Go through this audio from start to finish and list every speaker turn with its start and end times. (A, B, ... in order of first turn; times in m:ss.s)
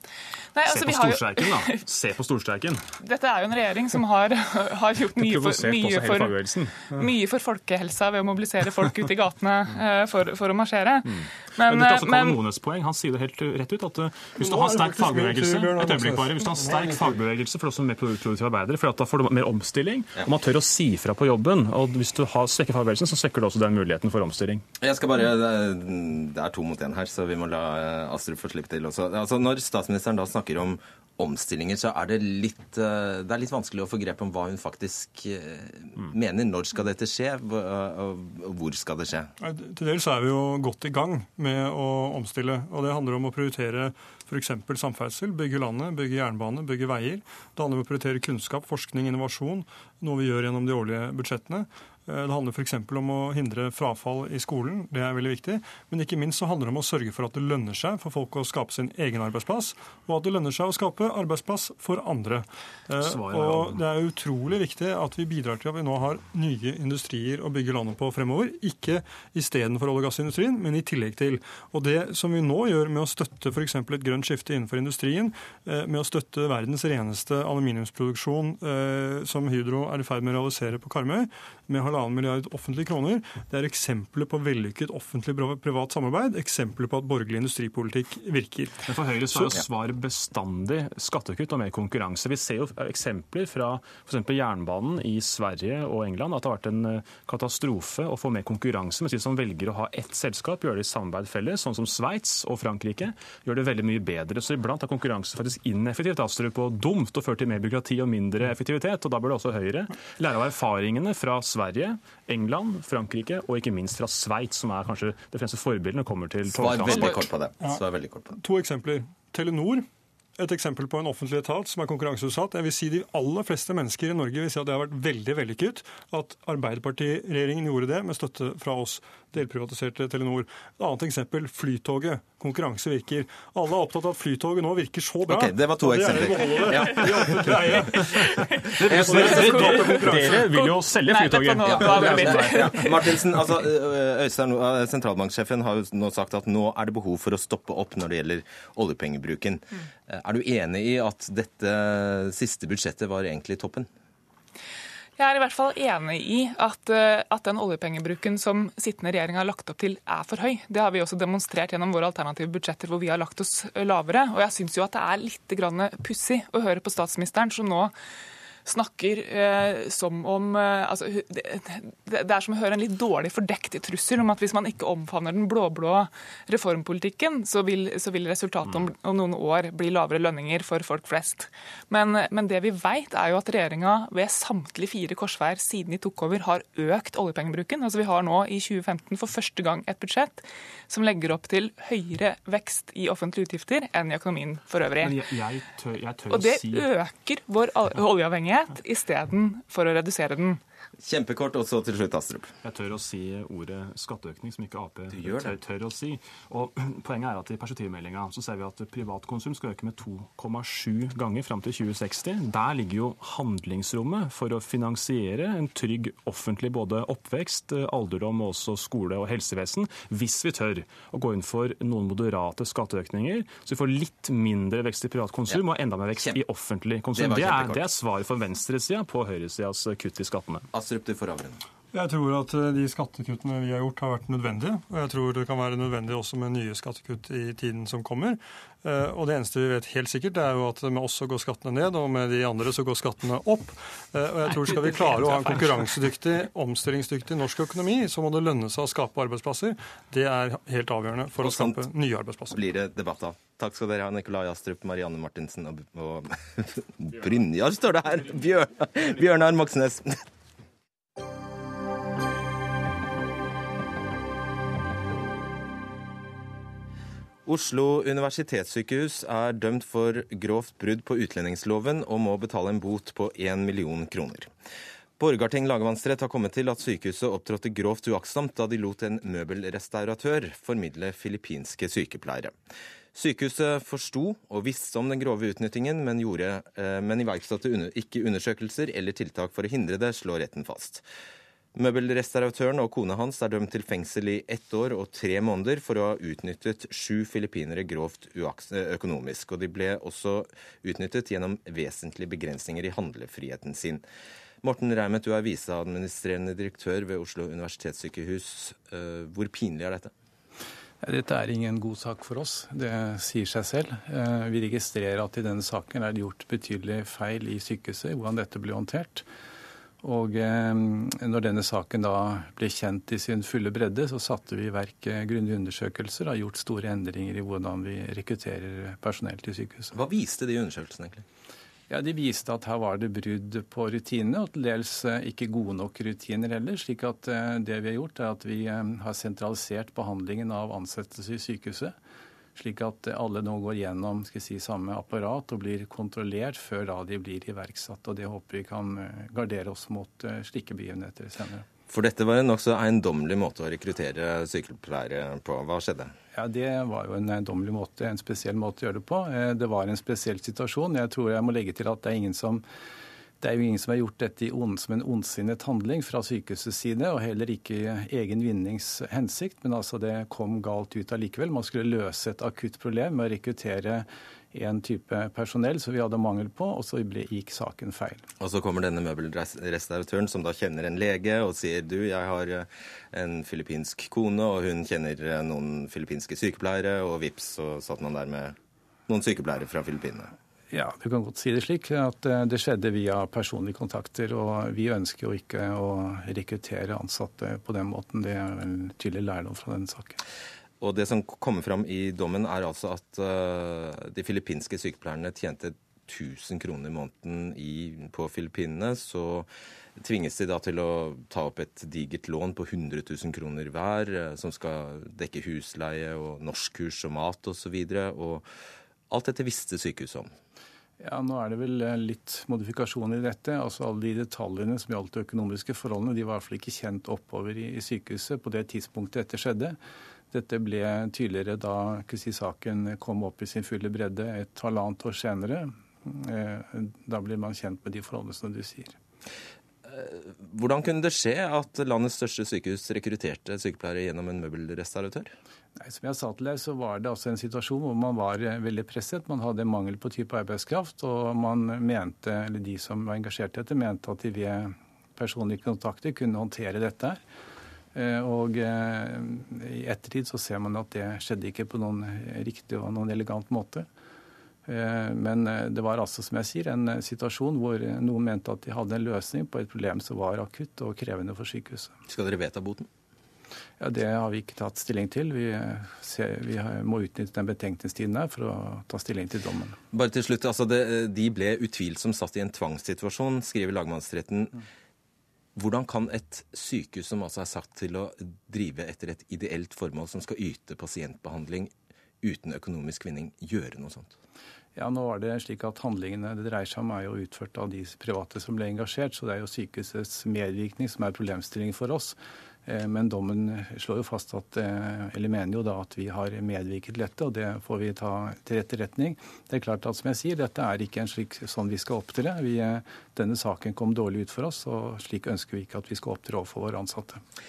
0:00.6-0:01.8 A
0:00.6-0:02.8 B
0:03.0-0:12.4 A
0:05.1-0:07.1 B
0:11.0-0:24.6 B
0:14.4-0:17.2 C
0:24.8-0:39.3 D
0:39.4-1:28.8 C
1:03.0-1:03.8 B
1:28.8-1:57.2 B
1:56.5-1:58.4 D
1:58.3-1:59.9 C
2:00.4-2:18.1 C
2:15.3-2:17.9 D
2:17.3-2:18.1 B
2:18.7-2:23.2 B
2:18.9-2:20.5 C
2:19.1-2:23.2 A
2:21.6-2:33.9 D
2:35.2-2:47.9 A
2:48.6-3:15.3 A
3:15.0-3:16.9 B
3:16.3-3:20.6 A
3:21.0-3:22.5 D
3:22.6-3:50.7 B
3:25.1-3:25.6 D
3:47.1-3:47.9 D
3:50.7-3:51.6 D
3:51.9-4:12.6 C
4:04.7-4:05.8 A
4:11.4-4:11.8 D
4:12.5-4:20.2 D
4:27.5-4:34.5 D
4:35.2-4:42.5 D
4:43.1-4:51.0 D
4:51.8-5:04.0 D
5:04.6-5:10.1 D
5:11.0-5:19.3 E
5:20.0-5:29.9 E
5:29.9-5:31.2 D
5:31.9-5:42.0 E
5:42.6-5:51.7 E
5:51.9-5:56.2 D
5:56.3-6:02.6 E
6:03.4-6:18.2 E
6:18.4-6:28.6 D
6:29.1-6:30.3 D
6:30.7-6:40.2 E
6:40.8-6:58.5 D
6:59.1-7:00.3 D
7:01.0-7:09.8 E
7:10.3-7:19.0 E
7:19.9-7:25.3 D
7:25.8-7:37.2 E
7:37.9-7:43.9 E
7:44.7-7:52.0 E
7:52.1-7:52.9 D
7:53.8-7:59.8 E
7:59.9-8:04.6 D
8:05.6-8:11.7 D
8:12.2-8:14.2 D
8:14.8-8:37.2 E